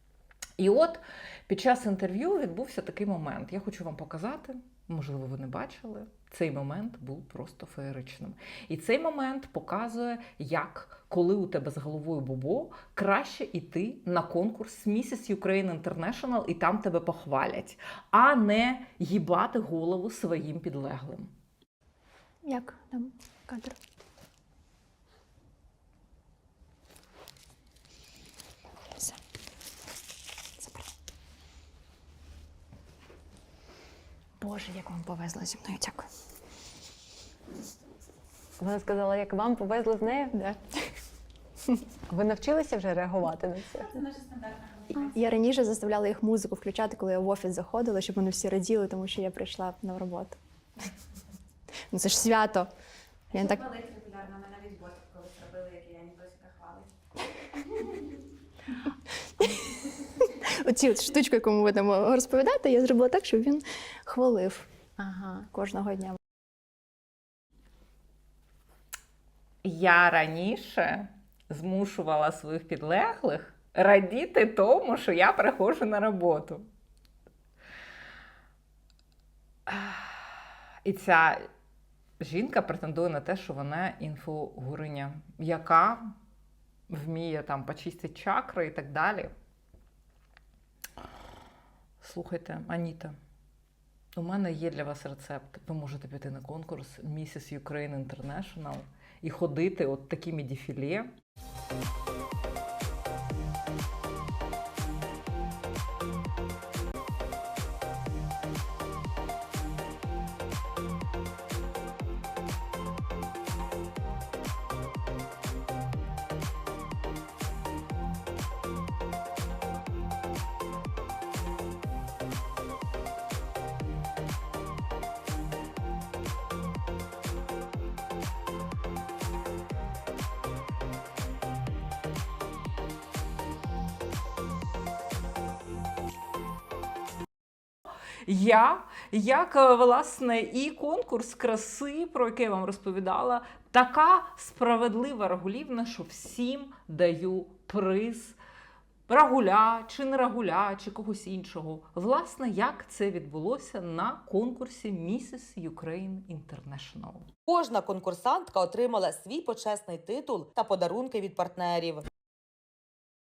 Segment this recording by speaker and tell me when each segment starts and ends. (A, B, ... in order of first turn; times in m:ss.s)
0:00.6-0:21.3 A
0:22.4-0:23.8 B
0:34.4-0:36.1 B
0:38.6-0:40.4 C
0:42.1-0:43.9 C
0:44.9-0:50.4 B
0:51.9-0:52.7 B
0:53.3-0:53.8 B
0:53.9-0:56.8 D
0:59.4-1:06.2 B
1:09.6-1:16.6 A
1:19.7-1:20.3 A
1:20.8-1:21.5 A
1:22.2-1:26.1 A
1:26.9-1:29.3 A
1:32.0-1:33.1 A
1:34.1-1:41.1 A
2:18.2-2:28.4 A
2:29.1-2:37.3 A
2:37.5-2:42.0 E